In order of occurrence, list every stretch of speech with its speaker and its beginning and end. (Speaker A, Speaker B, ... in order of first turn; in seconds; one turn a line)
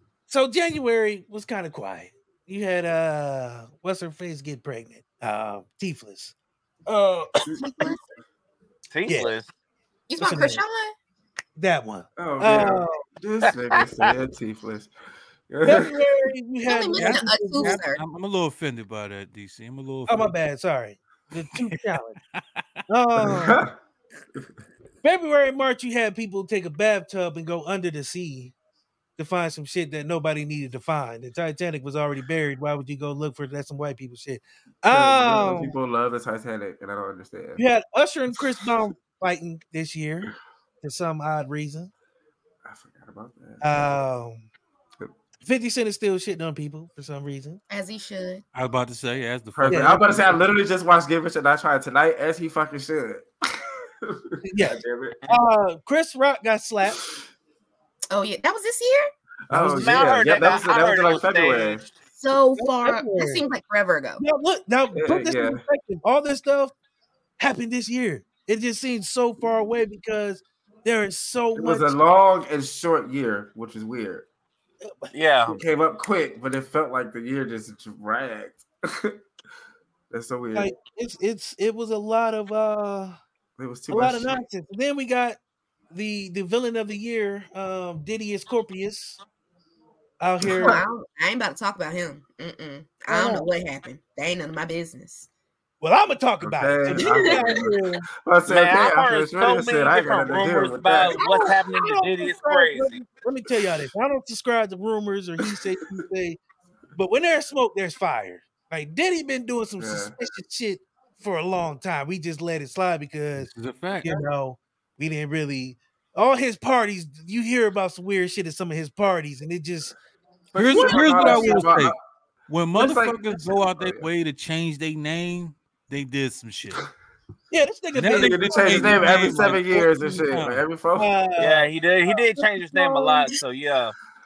Speaker A: 0.3-6.3
Speaker A: 6.9-7.9
Speaker B: 7.6-8.0
Speaker C: 8.9-9.5
Speaker B: 10.1-10.9
Speaker A: 10.2-10.6
Speaker A: 11.6-13.1
Speaker D: 12.2-14.9
Speaker C: 13.8-14.1
Speaker D: 15.5-15.9
Speaker A: 15.6-17.8
Speaker B: 16.7-18.0
Speaker E: 17.0-20.3
Speaker A: 20.1-22.2
Speaker E: 22.3-22.6
Speaker A: 22.9-23.6
Speaker D: 23.2-23.8
Speaker A: 25.0-28.5
Speaker A: 29.2-35.8
Speaker D: 34.9-37.6
Speaker A: 37.6-41.9
Speaker D: 42.6-44.0
Speaker A: 43.6-44.5
Speaker A: 45.4-47.6
Speaker B: 47.7-48.4
Speaker E: 48.5-50.4
Speaker D: 49.5-55.2
Speaker A: 49.7-50.3
Speaker A: 54.5-57.0
Speaker B: 58.1-59.1
Speaker D: 59.5-61.8
Speaker A: 59.5-60.2
Speaker C: 59.8-61.8
Speaker B: 62.1-64.2
Speaker A: 62.6-63.5
Speaker A: 64.2-66.7
Speaker D: 65.0-65.6
Speaker A: 67.4-72.0
Speaker D: 71.6-74.2
Speaker A: 74.8-75.1
Speaker C: 75.1-75.6
Speaker D: 75.5-79.2
Speaker D: 80.1-80.7
Speaker A: 80.5-83.2
Speaker D: 83.6-84.4
Speaker A: 83.9-85.4
Speaker A: 85.9-89.2
Speaker A: 90.2-90.8
Speaker D: 90.5-90.8
Speaker B: 90.6-95.3
Speaker A: 93.1-93.5
Speaker A: 95.8-98.1
Speaker D: 96.4-97.7
Speaker B: 97.0-97.6
Speaker D: 98.2-101.2
Speaker C: 98.5-103.0
Speaker A: 101.2-106.4
Speaker A: 107.0-120.0
Speaker D: 109.8-110.2
Speaker E: 113.5-114.2
Speaker D: 120.5-122.0
Speaker E: 120.6-122.0
Speaker A: 120.7-121.7
Speaker E: 122.5-126.8
Speaker D: 122.7-124.1
Speaker A: 127.5-129.5
Speaker E: 128.0-130.6
Speaker D: 128.1-131.1
Speaker A: 131.0-133.4
Speaker C: 131.4-133.9